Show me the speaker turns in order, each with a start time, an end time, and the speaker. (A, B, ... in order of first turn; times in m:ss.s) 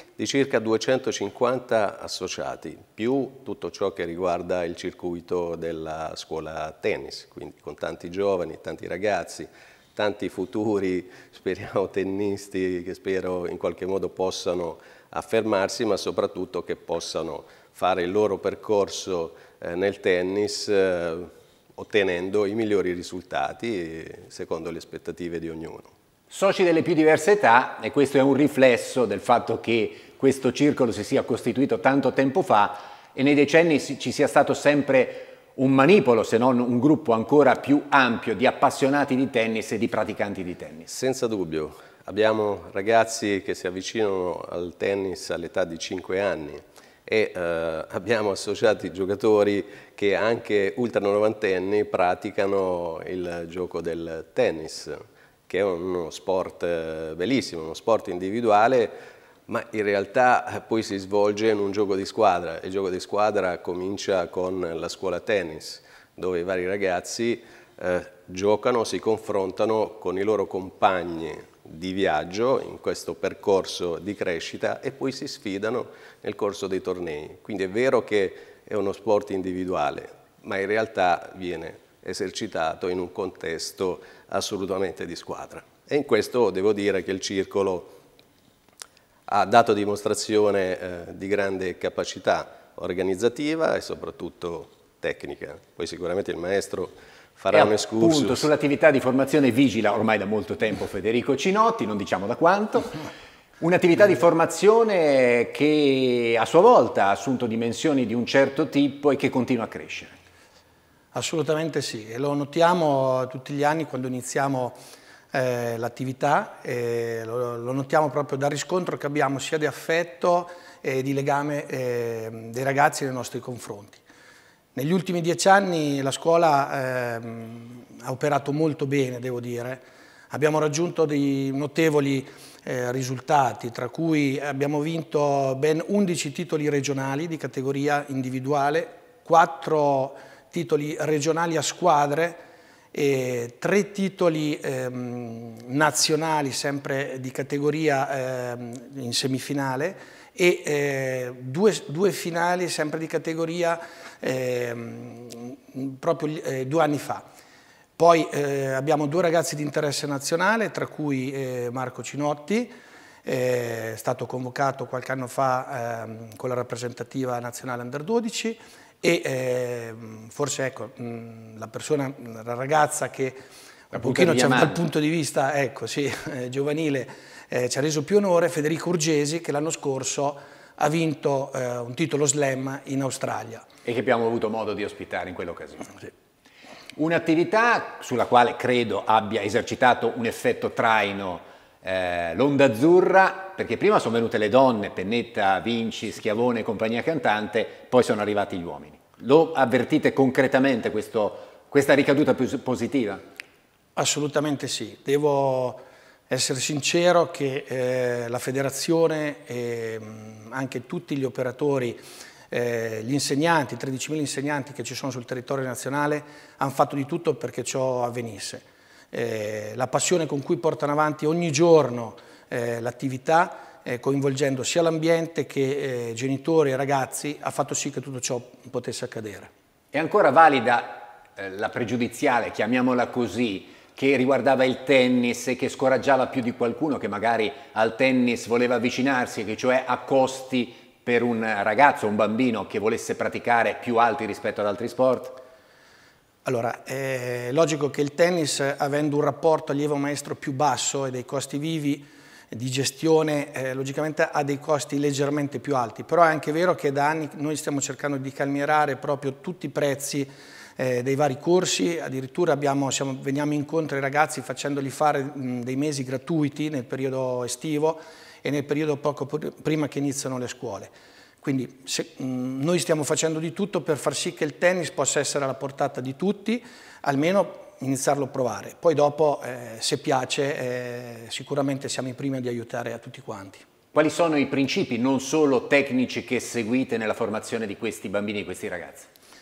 0:00.2-0:25.9 A
0:26.3-0:40.9 B
0:40.9-0:59.0 A
0:59.5-1:27.9 A
1:29.3-1:38.5 A
1:37.5-1:43.0 B
1:43.6-1:50.2 B
1:51.1-1:54.8 C
1:55.3-2:04.0 C
2:04.7-2:22.4 C
2:22.9-2:37.3 C
2:38.0-2:53.4 C
2:53.9-2:54.8 B
2:53.9-3:03.7 C
3:03.8-3:05.9 B
3:07.0-3:23.2 B
3:24.0-3:49.5 C
3:49.9-4:05.4 B
4:06.4-4:43.6 C
4:43.9-4:49.1 B